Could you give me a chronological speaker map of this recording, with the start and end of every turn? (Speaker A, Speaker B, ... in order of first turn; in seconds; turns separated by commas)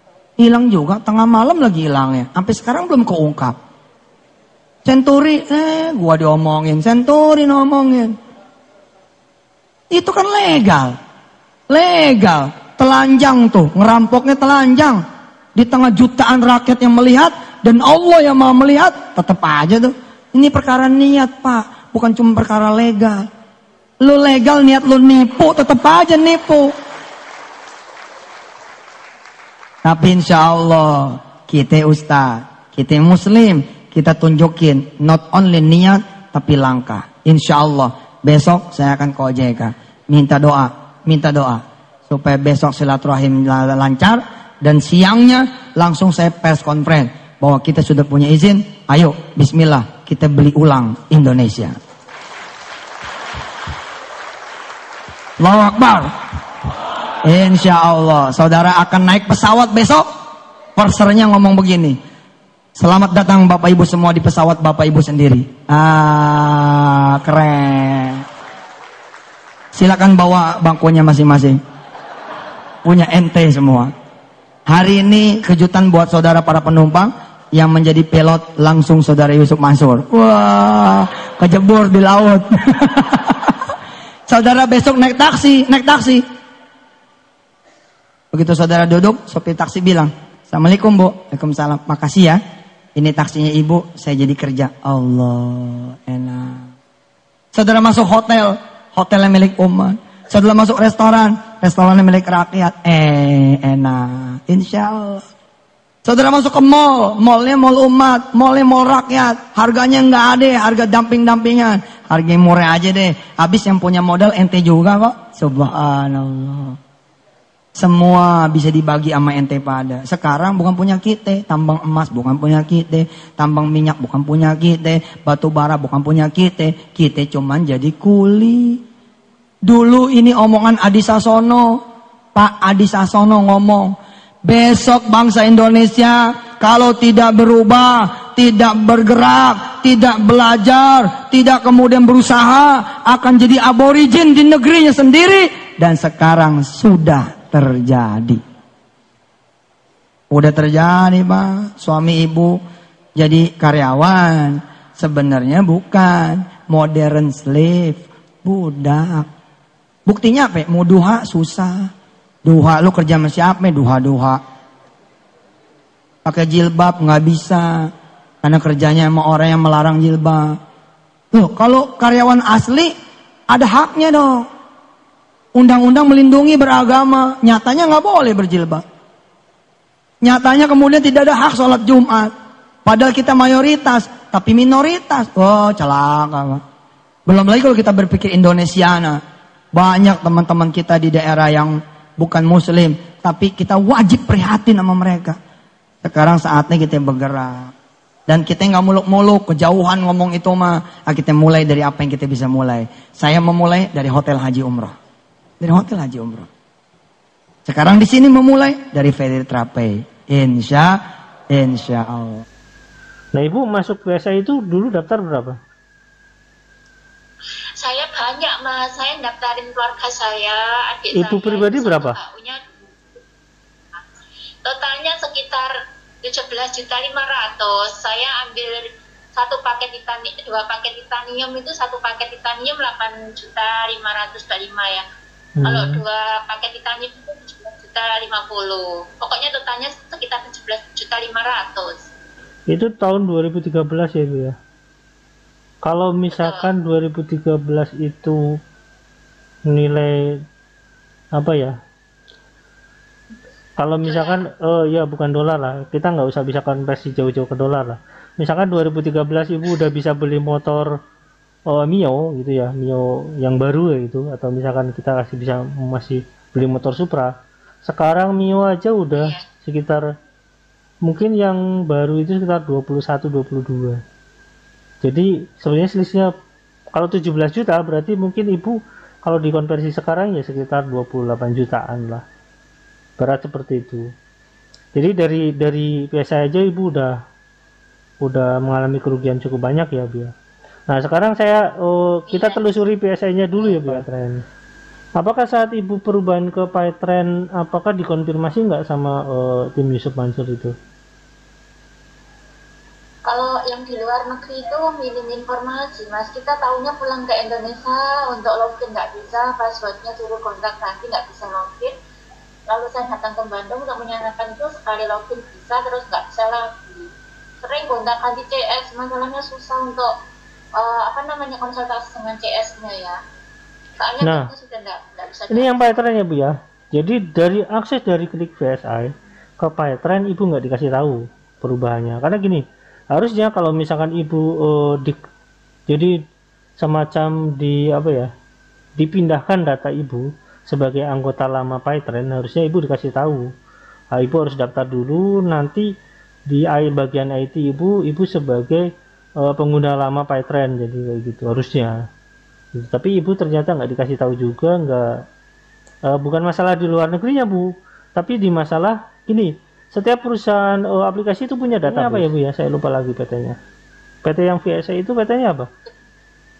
Speaker A: 0.4-3.5, Speaker A: 4.8-8.1, Speaker A: 9.9-10.9, Speaker A: 11.7-15.0, Speaker A: 15.5-23.3, Speaker A: 24.0-26.7, Speaker A: 29.8-51.7, Speaker A: 55.4-56.1, Speaker A: 57.2-60.1, Speaker A: 60.8-62.0, Speaker A: 62.8-68.2, Speaker A: 69.7-71.6, Speaker A: 72.8-73.9, Speaker A: 74.7-83.5, Speaker A: 84.3-86.2, Speaker A: 88.3-92.4, Speaker A: 92.9-96.7, Speaker A: 97.5-105.2, Speaker A: 106.0-116.8, Speaker A: 117.7-128.8, Speaker A: 129.6-131.8, Speaker A: 132.3-148.4, Speaker A: 150.3-152.6, Speaker A: 153.2-159.3, Speaker A: 160.1-161.9, Speaker A: 162.4-164.4, Speaker A: 166.2-167.9, Speaker A: 168.4-170.6, Speaker A: 171.3-172.9, Speaker A: 173.5-174.5, Speaker A: 175.5-178.8, Speaker A: 180.2-182.3, Speaker A: 182.8-186.6, Speaker A: 187.3-189.2, Speaker A: 189.7-195.4, Speaker A: 196.0-197.7, Speaker A: 198.3-204.9, Speaker A: 205.6-206.5, Speaker A: 207.7-212.4, Speaker B: 213.3-215.6, Speaker C: 217.8-222.6, Speaker B: 221.1-222.2, Speaker C: 224.6-225.7, Speaker C: 226.2-235.0, Speaker B: 235.6-236.0, Speaker C: 235.6-242.0, Speaker B: 242.7-244.5, Speaker B: 245.8-248.4, Speaker C: 246.3-246.7, Speaker B: 249.7-250.2, Speaker B: 251.3-251.7, Speaker B: 253.8-260.9, Speaker C: 254.0-254.4, Speaker B: 261.7-270.0, Speaker C: 269.1-269.4, Speaker B: 271.1-274.0, Speaker B: 275.0-276.3, Speaker B: 276.9-282.2, Speaker B: 283.2-284.1, Speaker B: 284.9-287.1, Speaker B: 288.2-290.3, Speaker B: 290.9-294.4, Speaker C: 292.3-292.8, Speaker C: 293.6-294.1, Speaker B: 295.2-300.7, Speaker C: 303.2-311.9, Speaker C: 312.7-317.1, Speaker C: 317.6-320.1, Speaker C: 320.8-323.2, Speaker C: 324.0-326.0, Speaker B: 324.2-324.5, Speaker B: 325.5-335.2, Speaker B: 335.9-336.1, Speaker B: 336.8-338.3, Speaker B: 339.0-343.5, Speaker B: 344.1-345.8, Speaker B: 346.5-348.8, Speaker B: 349.4-352.0, Speaker B: 352.8-355.0, Speaker B: 356.1-363.6, Speaker C: 361.9-362.2, Speaker B: 364.2-365.7